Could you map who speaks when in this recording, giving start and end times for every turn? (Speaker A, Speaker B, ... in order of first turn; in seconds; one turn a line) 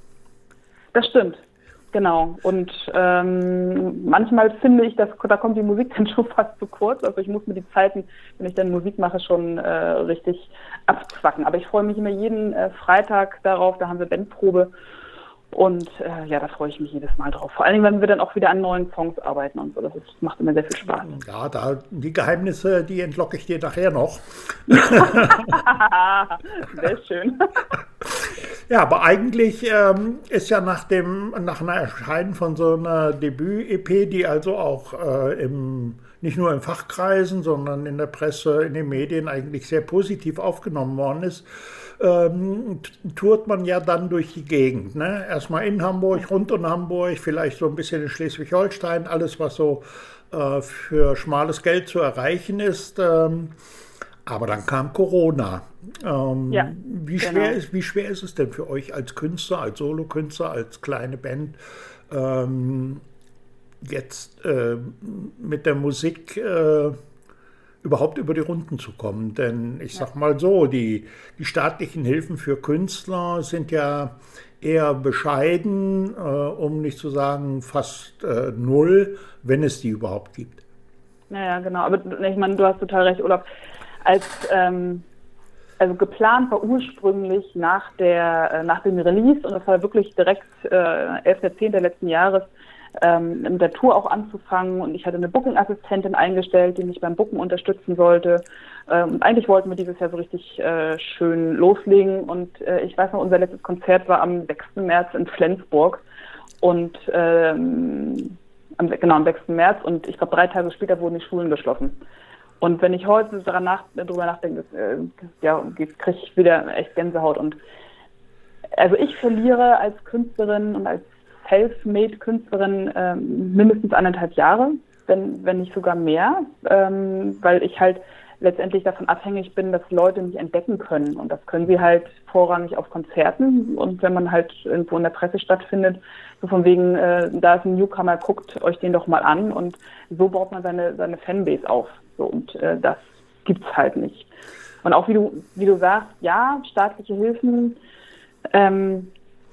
Speaker A: 0.9-1.4
Speaker A: 1.9-14.7
Speaker A: 15.5-21.1
Speaker B: 21.0-25.7
Speaker A: 25.0-27.7
Speaker B: 28.0-53.5
Speaker B: 54.2-61.6
Speaker A: 56.5-57.6
Speaker B: 62.1-63.0
Speaker B: 63.8-67.0
Speaker B: 67.8-80.6
Speaker A: 81.3-83.5
Speaker A: 84.0-85.0
Speaker A: 85.8-106.0
Speaker A: 106.6-111.9
Speaker A: 112.6-117.6
Speaker A: 118.7-144.3
Speaker A: 144.8-147.8
Speaker A: 148.5-149.1